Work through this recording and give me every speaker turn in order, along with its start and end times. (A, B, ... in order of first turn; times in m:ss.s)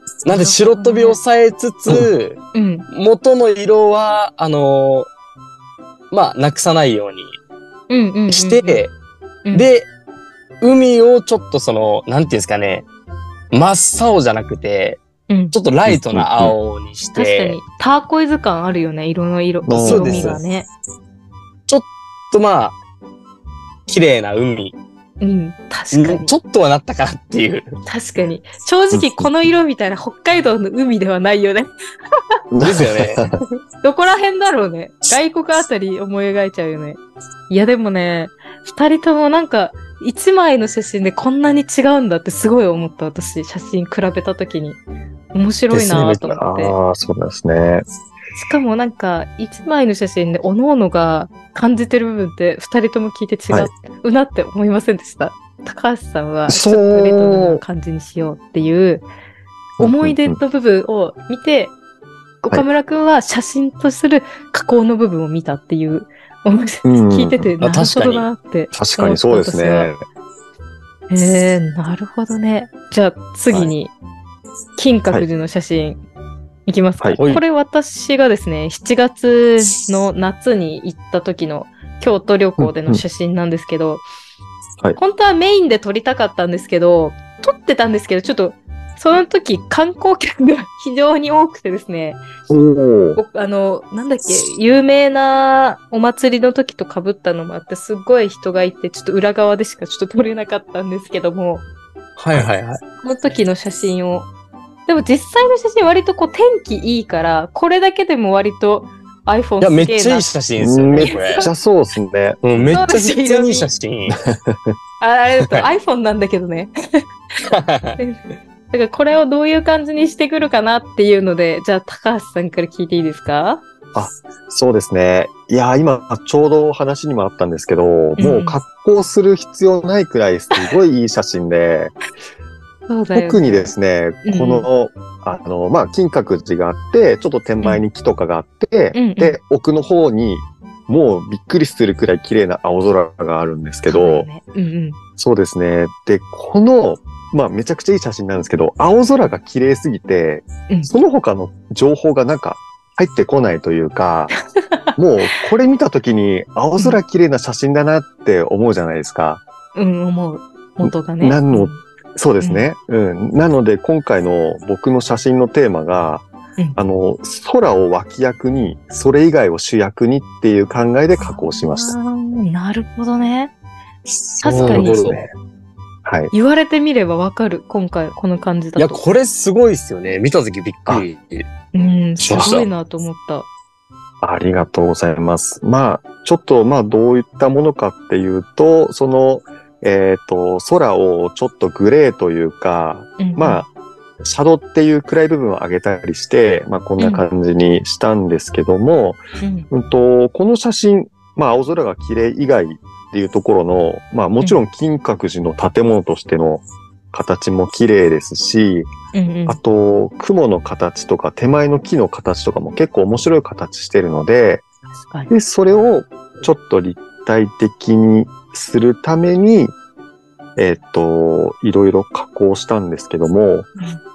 0:00.2-0:05.1 A
0:00.3-0:01.2 B
0:02.5-0:02.8 B
0:06.1-0:07.4 A
0:07.9-0:08.8 B
0:08.3-0:08.9 A
0:09.5-0:09.9 A
0:10.6-0:12.8 A
0:13.5-0:15.0 A
0:15.3-0:15.5 B
0:15.5-0:17.6 A
0:15.9-0:16.5 C
0:17.2-0:20.7 B
0:19.6-0:20.4 C
0:19.8-0:20.4 A
0:21.7-0:22.8 A
0:23.9-0:24.7 A
0:25.2-0:26.3 B
0:25.9-0:27.8 A
0:27.8-0:31.7 B
0:28.9-0:29.3 C
0:32.5-0:33.4 C
0:32.6-0:33.2 A
0:33.8-0:44.8 B
0:45.3-0:46.7 B
0:45.7-0:46.2 A
0:46.2-0:47.8 C
0:48.4-0:59.0 B
0:56.5-0:57.6 C
0:59.8-1:00.4 C
0:59.8-1:01.7 B
1:02.4-1:09.9 B
1:06.8-1:07.5 C
1:07.6-1:08.3 A
1:08.7-1:10.0 C
1:11.1-1:13.9 B
1:14.8-1:16.0 B
1:16.7-1:24.0 B
1:17.2-1:17.4 A
1:22.6-1:23.0 C
1:25.0-1:32.2 B
1:32.5-1:33.2 C
1:33.2-1:41.6 B
1:42.2-1:42.8 A
1:43.0-1:44.3 B
1:44.9-1:50.3 B
1:49.6-1:51.5 A
1:50.6-1:52.7 C
1:51.0-1:51.5 B
1:52.4-1:54.2 A
1:52.7-1:53.7 B
1:54.1-1:54.7 C
1:55.0-1:57.0 B
1:57.5-1:58.0 A
1:58.0-2:03.6 B
2:03.9-2:11.9 C
2:08.2-2:08.6 B
2:12.9-2:13.7 B
2:13.1-2:24.3 C
2:14.2-2:14.7 B
2:18.9-2:19.4 B
2:23.9-2:25.0 B
2:25.2-2:34.3 C
2:35.0-2:39.4 C
2:39.7-2:41.8 B
2:40.8-2:52.0 C
2:42.4-2:42.7 B
2:51.2-2:53.5 B
2:54.1-2:55.3 C
2:54.4-2:55.0 B
2:54.5-2:55.2 A
2:56.0-2:56.3 C
2:56.3-2:59.0 B
2:58.8-3:01.5 A
3:01.7-3:03.5 B
3:02.2-3:02.7 A
3:02.3-3:02.6 C
3:04.2-3:13.7 C
3:13.2-3:13.6 B
3:14.2-3:28.9 C
3:17.0-3:17.2 B
3:19.4-3:19.7 B
3:29.1-3:29.6 B
3:29.5-3:34.6 C
3:35.0-3:35.3 B
3:35.3-3:39.7 C
3:40.6-3:43.7 C